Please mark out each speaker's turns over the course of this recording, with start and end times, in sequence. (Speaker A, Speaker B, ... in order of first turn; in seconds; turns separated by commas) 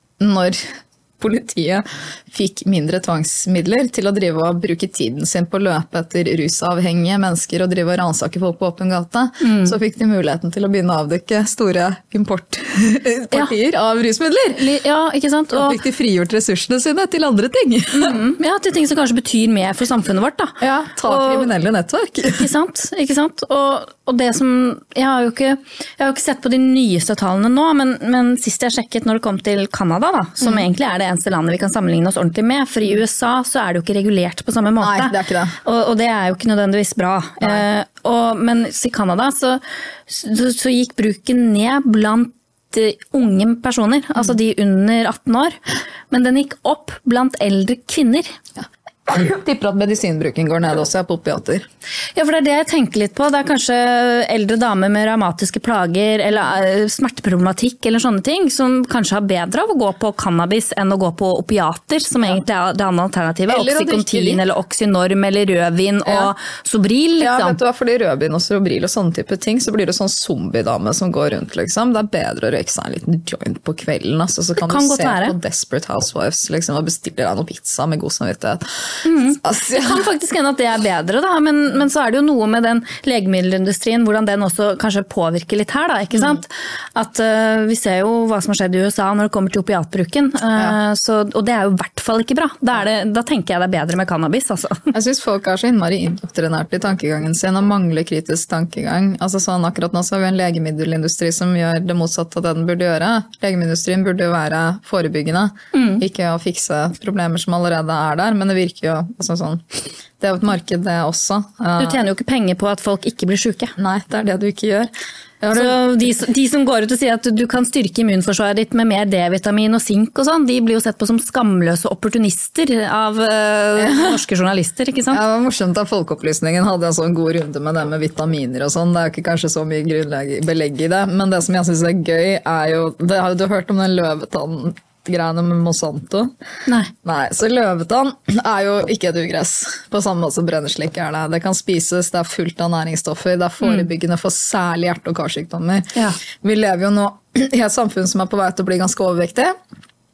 Speaker A: 0.2-14.6, Speaker B: 9.4-9.8, Speaker B: 14.5-15.8, Speaker A: 15.5-18.2, Speaker B: 17.9-21.5, Speaker A: 20.6-22.5, Speaker B: 22.3-45.6, Speaker A: 34.8-35.6, Speaker B: 46.1-48.3, Speaker A: 49.1-51.7, Speaker B: 52.1-67.6, Speaker A: 63.5-64.4, Speaker A: 67.2-80.0, Speaker B: 74.6-75.4, Speaker B: 79.0-94.9, Speaker A: 94.9-112.0, Speaker B: 105.7-106.0, Speaker B: 111.8-113.7, Speaker A: 113.8-116.1, Speaker B: 115.5-125.2, Speaker A: 123.8-124.2, Speaker A: 125.1-136.3, Speaker A: 137.0-149.6